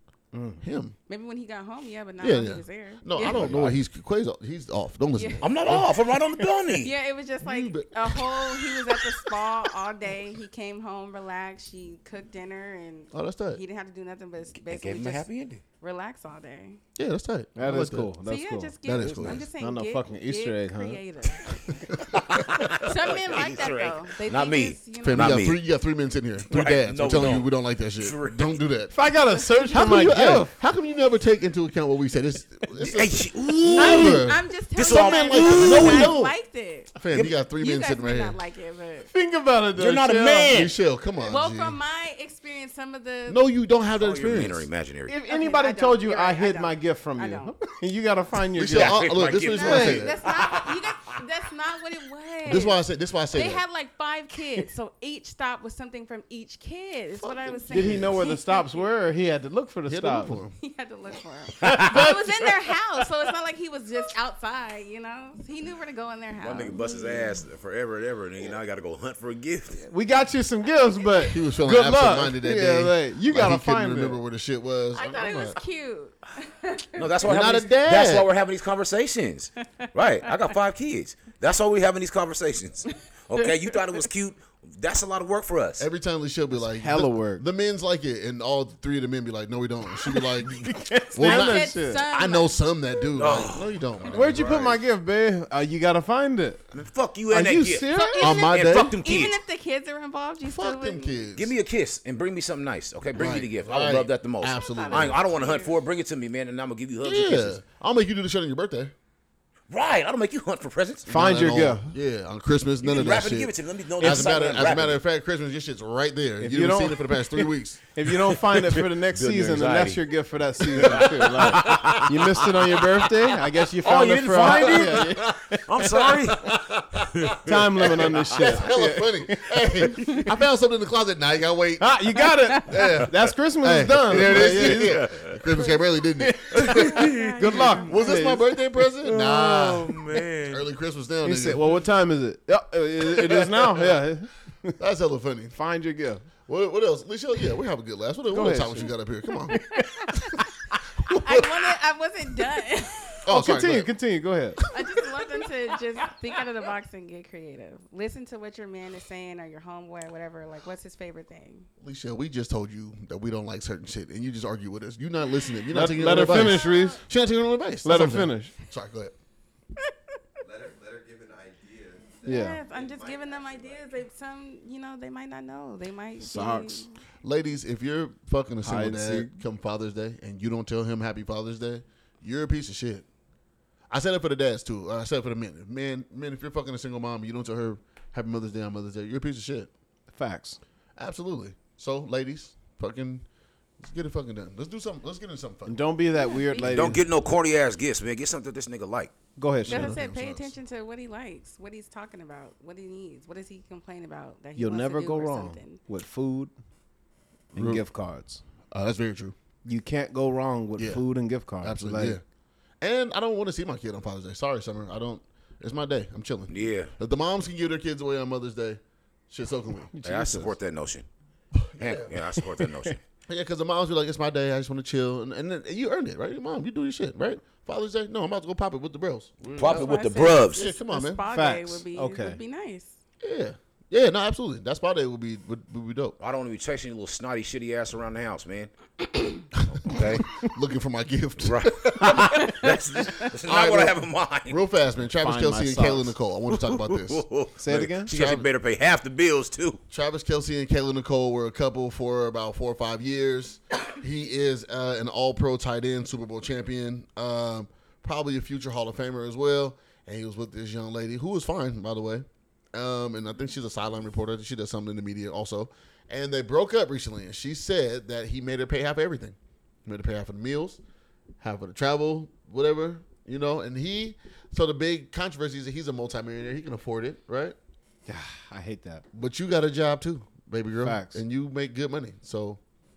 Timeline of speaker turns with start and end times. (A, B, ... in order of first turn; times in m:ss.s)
0:00.3-0:00.6 A
0:00.6-0:01.0 B
0:01.1-0:03.5 C
0:02.2-0:05.9 B
0:03.2-0:03.8 D
0:05.2-0:05.4 C
0:05.4-0:06.9 D
0:06.7-0:15.3 C
0:07.4-0:08.8 B
0:13.1-0:13.6 B
0:14.6-0:15.6 D
0:15.8-0:16.8 C
0:17.0-0:18.1 B
0:17.6-0:18.7 A
0:18.2-0:25.4 C
0:18.8-0:19.5 B
0:18.9-0:19.4 D
0:19.6-0:21.0 A
0:22.1-0:25.6 D
0:25.0-0:28.9 B
0:26.5-0:28.7 D
0:28.9-0:30.6 A
0:29.3-0:29.9 C
0:29.7-0:36.3 B
0:32.8-0:36.2 D
0:33.8-0:36.9 C
0:37.0-0:38.4 B
0:37.6-0:39.1 C
0:39.1-0:40.5 A
0:39.8-0:40.8 D
0:40.5-0:41.8 B
0:41.2-0:43.4 C
0:43.3-0:44.7 B
0:43.9-0:45.1 D
0:45.1-0:49.0 A
0:45.2-0:47.5 C
0:48.5-0:50.2 B
0:48.7-0:51.2 D
0:49.5-0:52.8 C
0:49.6-0:50.0 A
0:52.4-0:53.6 B
0:53.3-0:58.9 C
0:57.2-0:58.2 B
0:57.7-1:00.4 A
0:59.9-1:00.5 B
1:00.6-1:07.3 C
1:01.6-1:02.2 A
1:06.4-1:09.8 D
1:09.7-1:14.2 A
1:11.3-1:15.6 B
1:14.9-1:17.1 C
1:17.0-1:25.9 D
1:17.2-1:18.3 B
1:25.8-1:34.6 B
1:26.6-1:27.4 A
1:30.1-1:32.0 A
1:31.2-1:32.6 C
1:33.2-1:34.8 D
1:34.1-1:36.6 A
1:36.7-1:39.4 D
1:37.3-1:38.3 A
1:37.9-1:41.2 C
1:38.2-1:39.0 B
1:40.4-1:41.5 B
1:41.4-1:47.6 D
1:43.2-1:45.3 B
1:44.5-1:45.8 C
1:47.0-1:48.9 B
1:49.7-1:51.1 D
1:51.1-1:57.8 B
1:51.1-1:52.0 A
1:52.8-1:55.0 D
1:56.4-1:57.4 A
1:57.9-2:06.6 A
1:58.5-2:00.1 D
2:00.7-2:02.7 D
2:00.8-2:01.2 B
2:03.8-2:08.6 D
2:04.4-2:07.4 B
2:07.4-2:10.2 A
2:07.9-2:17.1 B
2:11.8-2:15.0 A
2:14.1-2:15.4 D
2:16.2-2:18.9 A
2:16.7-2:17.8 D
2:17.0-2:18.0 C
2:17.9-2:21.6 B
2:19.1-2:20.6 D
2:21.2-2:24.8 A
2:23.0-2:23.8 B
2:24.8-2:25.6 B
2:25.5-2:26.3 A
2:26.4-2:29.6 B
2:28.3-2:29.0 A
2:29.5-2:30.5 A
2:31.0-2:31.8 B
2:31.1-2:33.2 C
2:33.2-2:33.9 B
2:33.3-2:34.6 A
2:34.6-2:34.9 B
2:34.7-2:41.7 C
2:41.8-2:49.1 B
2:45.7-2:47.0 A
2:46.3-2:47.0 C
2:47.8-2:48.5 A
2:50.4-2:54.0 E
2:52.2-2:52.6 A
2:52.2-2:56.9 C
2:56.2-2:56.9 A
2:57.2-3:03.1 B
2:58.6-2:59.3 A
3:03.9-3:09.7 B
3:10.1-3:10.6 A
3:11.0-3:13.2 B
3:13.8-3:15.8 B
3:15.6-3:17.0 A
3:16.2-3:16.7 C
3:16.6-3:19.1 D
3:19.4-3:20.0 A
3:19.6-3:20.6 B
3:19.7-3:25.8 C
3:24.6-3:26.5 A
3:27.5-3:27.8 B
3:27.6-3:28.4 A
3:28.7-3:29.4 B
3:29.6-3:32.2 A
3:30.8-3:31.0 B
3:31.6-3:32.2 B
3:32.8-3:39.9 B
3:36.5-3:36.9 D
3:39.9-3:40.5 A
3:40.0-3:41.1 D
3:41.5-3:42.2 B
3:41.8-3:43.0 D
3:42.5-3:43.0 A
3:43.3-3:51.2 B
3:49.5-3:50.7 D
3:49.6-3:53.0 C
3:51.3-3:52.4 A
3:53.2-3:56.2 B
3:56.2-3:58.7 D
3:59.6-4:07.2 B
3:59.8-4:00.3 D
4:01.4-4:04.6 D
4:05.2-4:06.1 A
4:06.5-4:09.8 D
4:07.6-4:08.1 A
4:08.1-4:08.5 B
4:09.9-4:30.8 B
4:31.4-4:37.6 B
4:38.1-4:39.0 A
4:39.1-4:42.6 B
4:40.8-4:41.2 A